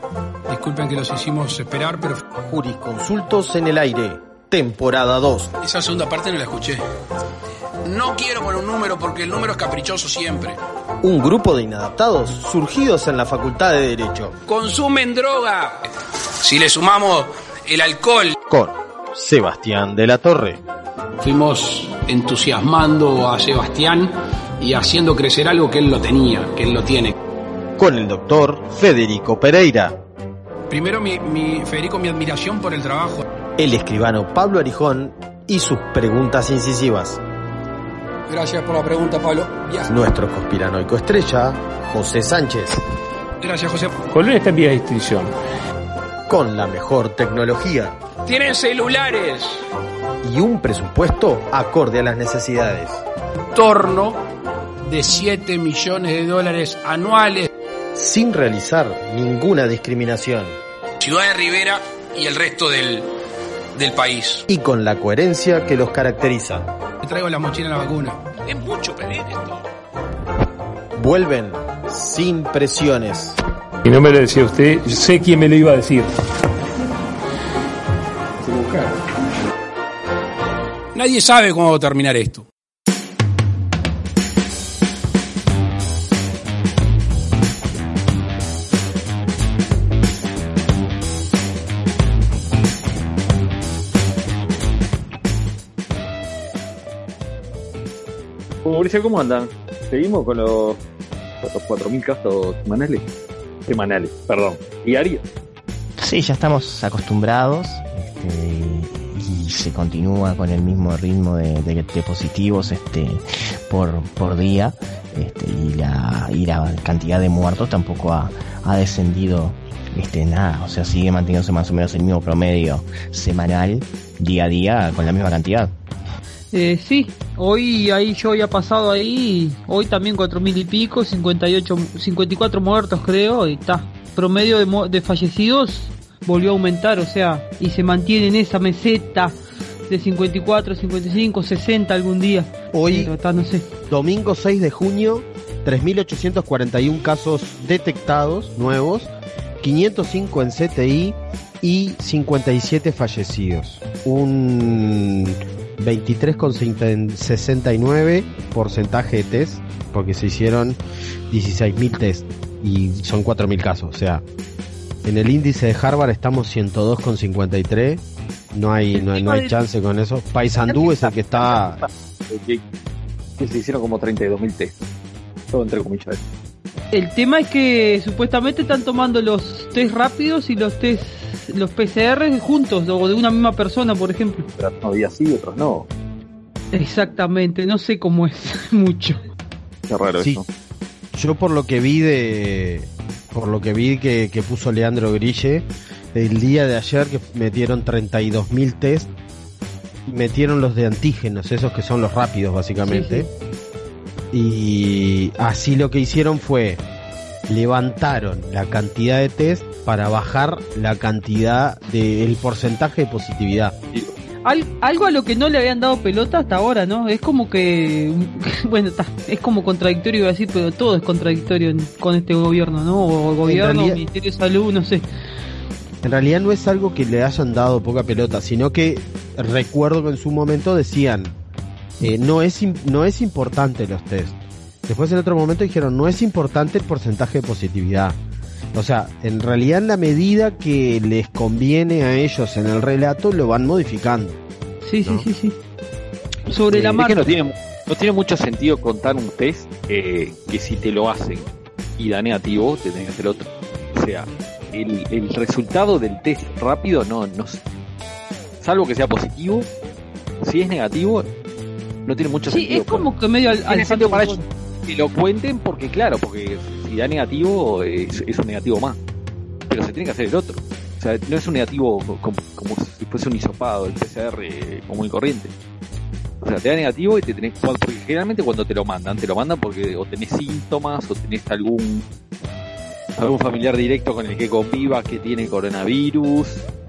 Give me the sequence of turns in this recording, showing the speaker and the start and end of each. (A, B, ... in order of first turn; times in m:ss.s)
0:00.5-0:02.2 A
0:02.4-0:05.5 B
0:05.6-0:06.8 A
0:07.8-0:10.6 A
0:11.0-0:14.4 B
0:14.5-0:15.8 A
0:16.4-0:18.4 A
0:18.5-0:20.6 B
0:21.2-0:27.1 A
0:27.8-0:30.0 B
0:30.7-0:33.2 A
0:33.6-0:37.2 B
0:38.3-0:39.9 A
0:39.9-0:42.8 B
0:43.4-0:43.9 A
0:44.1-0:45.3 C
0:46.3-0:47.9 B
0:48.2-0:49.6 A
0:50.2-0:53.0 B
0:53.5-0:54.2 A
0:54.8-0:57.5 A
0:57.9-1:00.6 B
1:01.0-1:03.0 A
1:03.8-1:04.4 A
1:04.5-1:06.7 B
1:07.0-1:09.6 A
1:10.9-1:13.4 B
1:13.8-1:16.1 C
1:20.9-1:22.5 A
1:38.6-1:40.8 D
1:41.4-1:43.0 D
1:43.7-1:45.2 D
1:46.0-2:05.7 E
2:06.5-2:19.4 F
2:19.9-2:23.7 F
2:22.7-2:23.1 B
2:23.9-2:40.8 B
2:41.3-2:44.2 B
2:45.0-2:51.8 B
2:48.9-2:49.5 F
2:50.7-2:52.6 D
2:53.4-2:54.7 D
2:55.5-2:56.2 D
2:56.9-3:04.4 F
3:04.6-3:05.9 D
3:06.7-3:09.2 F
3:09.9-3:10.4 D
3:11.1-3:19.1 B
3:20.1-3:23.3 B
3:22.8-3:23.3 F
3:24.3-3:26.8 B
3:27.5-3:33.7 B
3:34.4-3:45.0 F
3:43.4-3:44.0 B
3:46.0-3:51.3 B
3:52.0-3:58.2 B
3:58.7-4:04.4 B
4:04.8-4:05.6 F
4:06.5-4:07.2 F
4:06.7-4:17.6 D
4:18.6-4:19.7 D
4:20.4-4:21.3 D
4:22.0-4:23.1 D
4:22.5-4:24.4 F
4:23.7-4:29.0 D
4:29.7-4:35.5 D
4:36.4-4:42.0 D
4:43.2-4:46.6 D